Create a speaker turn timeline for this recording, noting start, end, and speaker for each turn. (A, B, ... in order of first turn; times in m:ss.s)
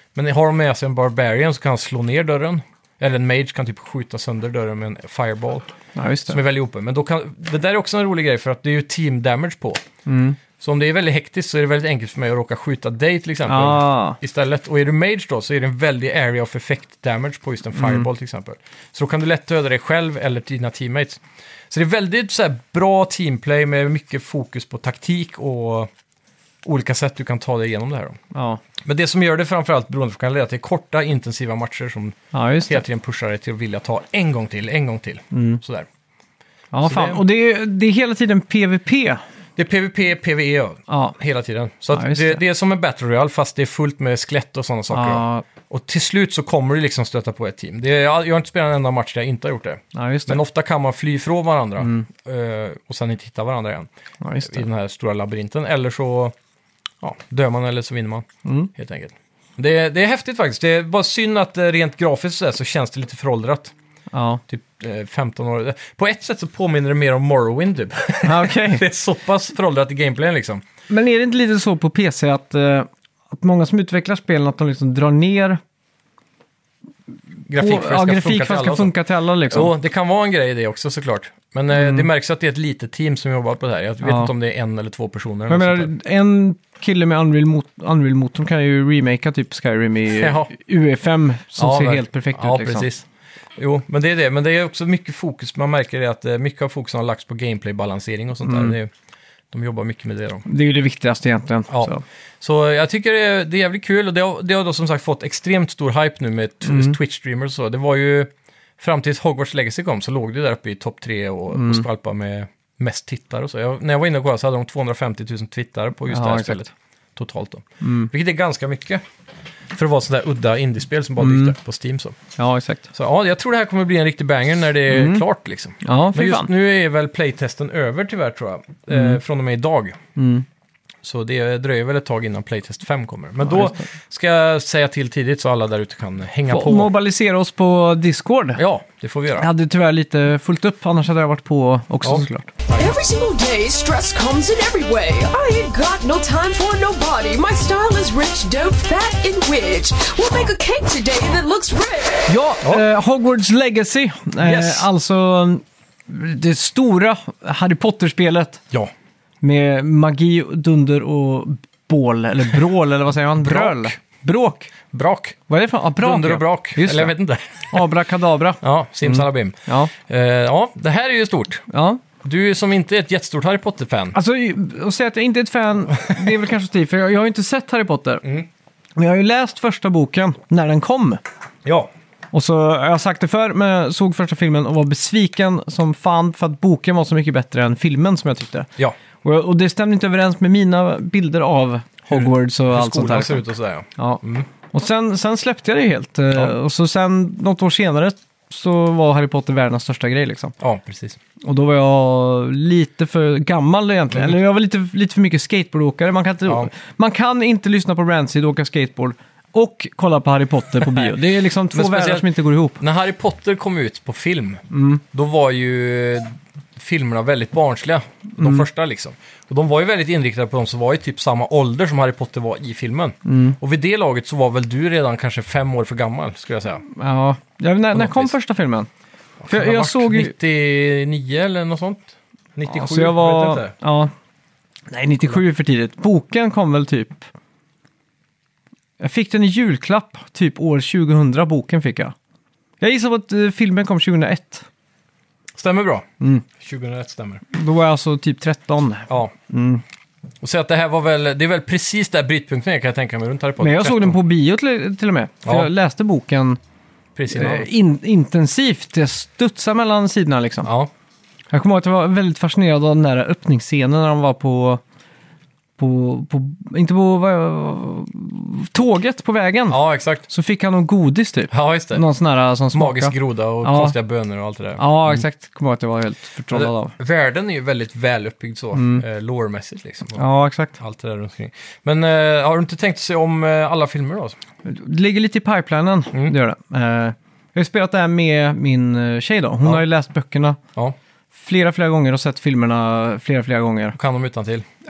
0:00.2-0:05.7 A
0:06.0-0:06.4 B
0:06.3-0:09.8 A
0:10.1-0:10.4 B
0:10.6-0:25.9 A
0:13.5-0:14.2 B
0:17.8-0:18.1 B
0:26.6-0:28.2 A
0:28.3-0:28.6 B
0:28.8-0:35.9 A
0:32.3-0:32.8 B
0:35.3-0:35.6 B
0:36.7-0:39.2 B
0:36.8-0:37.2 A
0:39.6-0:53.9 A
0:40.9-0:41.2 B
0:41.9-0:42.4 B
0:44.9-0:45.4 B
0:49.9-0:50.4 B
0:51.8-0:52.1 B
0:54.2-0:54.6 B
0:54.4-0:56.4 A
0:57.0-1:03.7 A
0:58.4-0:58.7 B
1:04.1-1:04.4 B
1:04.5-1:10.6 A
1:08.2-1:08.8 B
1:10.9-1:15.6 B
1:17.5-1:18.9 A
1:17.5-1:19.7 B
1:19.5-1:25.9 A
1:21.7-1:22.1 B
1:24.0-1:24.3 B
1:25.5-1:32.9 B
1:30.2-1:30.5 A
1:31.6-1:38.9 A
1:38.4-1:38.8 B
1:39.5-1:40.5 A
1:40.5-1:42.0 B
1:41.7-1:59.0 A
1:46.7-1:47.0 B
1:51.5-1:51.8 B
1:56.1-1:56.7 B
1:57.8-1:58.1 B
1:59.7-2:02.2 A
2:01.2-2:01.5 B
2:02.4-2:02.8 B
2:02.9-2:10.0 A
2:04.9-2:05.2 B
2:05.8-2:06.5 B
2:08.9-2:09.2 B
2:10.2-2:10.4 B
2:11.0-2:16.9 A
2:13.5-2:13.8 B
2:16.5-2:18.6 B
2:18.6-2:19.5 A
2:19.4-2:22.5 B
2:22.0-2:23.0 A
2:22.8-2:32.3 C
2:32.3-2:38.6 B
2:34.4-2:34.9 A
2:39.4-2:44.7 B
2:43.4-2:44.0 A
2:44.9-2:45.4 A
2:45.5-2:47.2 B
2:46.0-2:47.9 A
2:47.7-2:49.9 B
2:48.6-2:51.7 A
2:51.7-2:52.0 B
2:52.2-2:54.2 A
2:54.1-2:58.2 B
2:59.0-3:01.2 B
3:01.6-3:01.9 A
3:02.3-3:08.7 B
3:09.2-3:20.5 B
3:12.1-3:14.5 A
3:20.6-3:21.2 A
3:21.4-3:32.8 B
3:26.5-3:26.7 A
3:30.9-3:31.2 A
3:31.7-3:46.8 A
3:34.7-3:35.0 B
3:38.4-3:38.6 B
3:43.2-3:43.6 B
3:46.9-3:48.9 B
3:47.9-3:48.3 A
3:49.4-3:53.7 A
3:49.5-3:50.3 B
3:52.7-3:54.1 B
3:54.9-3:57.3 B
3:59.0-4:02.1 B
4:02.8-4:04.7 B
4:05.6-4:07.4 A
4:07.5-4:09.8 B
4:10.4-4:14.2 A
4:13.6-4:16.6 B
4:15.4-4:15.7 A
4:17.2-4:17.7 A
4:17.3-4:20.7 B
4:20.6-4:20.9 A
4:21.5-4:24.8 B
4:25.8-4:34.0 B
4:29.7-4:30.2 A
4:31.5-4:32.0 A
4:32.7-4:35.2 A
4:34.8-4:37.0 B
4:36.5-4:40.2 A
4:38.7-4:39.0 B
4:40.2-4:40.8 B
4:40.8-4:44.4 A
4:44.6-4:50.6 B
4:51.3-4:54.0 B
4:54.0-4:54.7 A